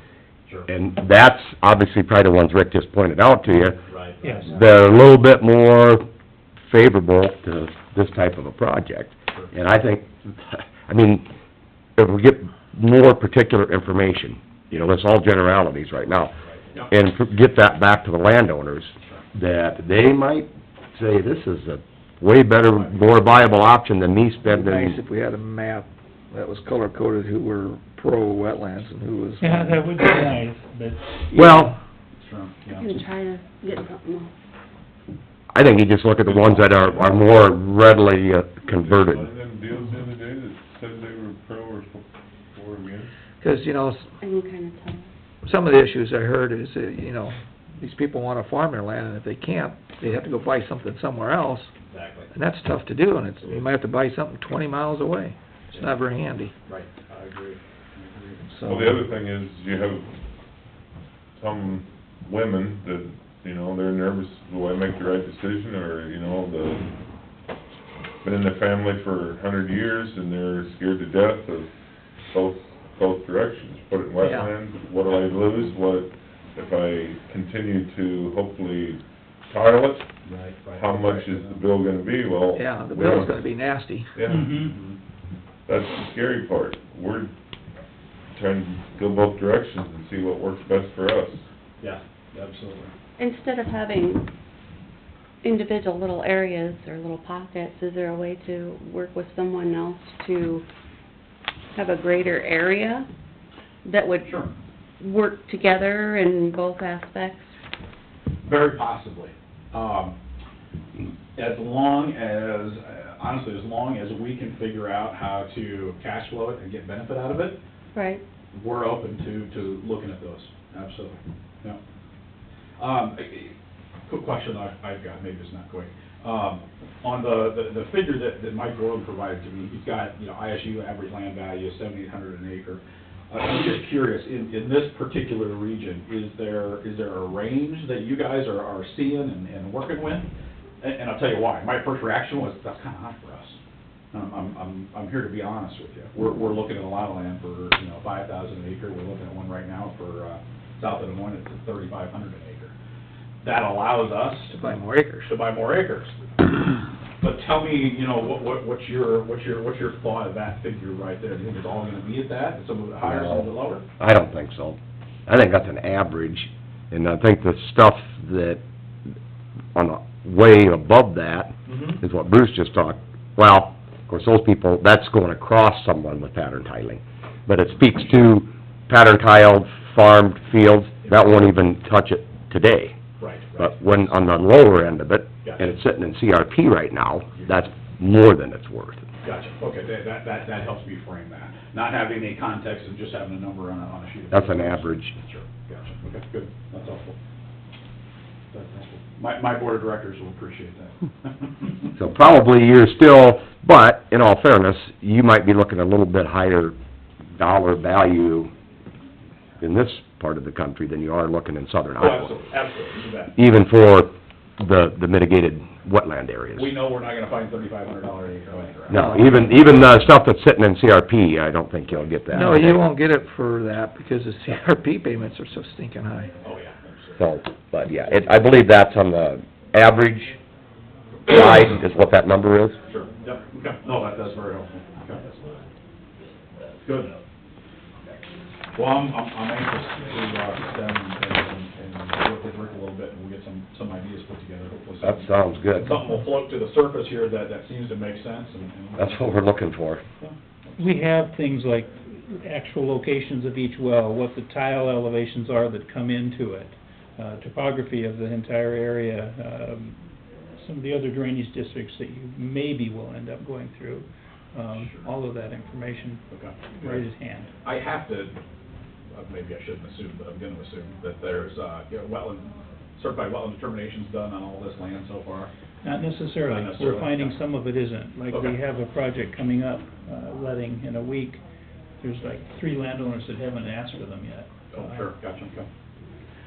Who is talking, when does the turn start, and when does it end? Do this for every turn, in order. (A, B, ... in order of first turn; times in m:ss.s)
0:00.7-0:03.8 A
0:03.9-0:04.5 B
0:04.2-0:04.5 C
0:04.5-0:06.0 A
0:06.6-0:11.2 A
0:12.0-0:16.3 A
0:16.4-0:16.9 B
0:16.9-0:25.0 A
0:22.7-0:23.4 B
0:24.5-0:29.8 D
0:29.4-0:31.3 C
0:31.3-0:31.7 A
0:31.3-0:31.8 D
0:32.2-0:32.9 B
0:32.7-0:34.3 E
0:35.5-0:39.3 A
0:36.2-0:37.3 F
0:38.6-0:43.1 F
0:43.4-0:44.1 D
0:44.2-0:45.1 E
0:45.4-0:51.7 D
0:51.8-0:52.3 B
0:52.3-0:56.5 D
0:55.7-0:56.0 B
0:56.6-0:58.4 B
0:58.4-0:59.1 D
0:58.6-1:00.1 F
1:01.4-1:06.8 F
1:08.2-1:11.7 F
1:12.3-1:20.1 F
1:14.2-1:14.5 D
1:20.2-1:21.6 B
1:20.7-1:23.4 F
1:22.5-1:24.1 D
1:24.2-1:24.7 F
1:24.3-1:24.7 C
1:24.6-1:25.0 B
1:25.7-1:27.3 F
1:28.3-1:31.4 F
1:31.8-1:32.9 B
1:33.2-1:34.3 E
1:35.4-1:40.7 E
1:41.7-1:43.1 E
1:43.8-1:44.4 E
1:44.2-1:44.6 B
1:45.0-1:47.5 E
1:48.4-1:50.2 B
1:51.4-1:57.6 B
1:57.9-1:58.2 E
1:58.5-2:01.8 B
2:02.8-2:03.5 B
2:04.1-2:20.3 B
2:20.8-2:23.6 B
2:24.1-2:32.7 B
2:33.4-2:34.5 B
2:34.5-2:35.3 D
2:35.2-2:36.2 B
2:37.2-2:43.8 B
2:43.0-2:48.6 A
2:49.7-3:03.0 A
2:51.7-2:52.0 B
3:01.0-3:01.6 B
3:03.2-3:04.2 B
3:03.6-3:09.0 A
3:09.2-3:17.2 B
3:14.3-3:15.2 A
3:18.5-3:21.9 B
3:21.9-3:26.7 A
3:27.3-3:28.5 A
3:29.6-3:32.3 A
3:32.0-3:33.3 B
3:33.3-3:36.7 A
3:36.6-3:39.7 B
3:38.9-3:42.9 A
3:39.0-3:39.4 D
3:42.3-3:46.3 D
3:46.4-3:47.3 B
3:47.2-3:50.3 A
3:51.3-3:52.8 A
3:52.9-3:55.4 B
3:56.8-3:57.2 B
3:58.7-4:09.4 B
4:05.0-4:06.0 A
4:09.0-4:10.0 A
4:10.2-4:11.0 B
4:10.8-4:20.0 C
4:20.6-4:27.5 C
4:24.7-4:25.1 B
4:26.3-4:27.1 B
4:27.6-4:28.4 B
4:29.1-4:35.5 B
4:35.8-4:41.4 C
4:36.4-4:37.4 B
4:38.3-4:38.6 B
4:42.0-4:45.1 C
4:44.7-4:45.7 B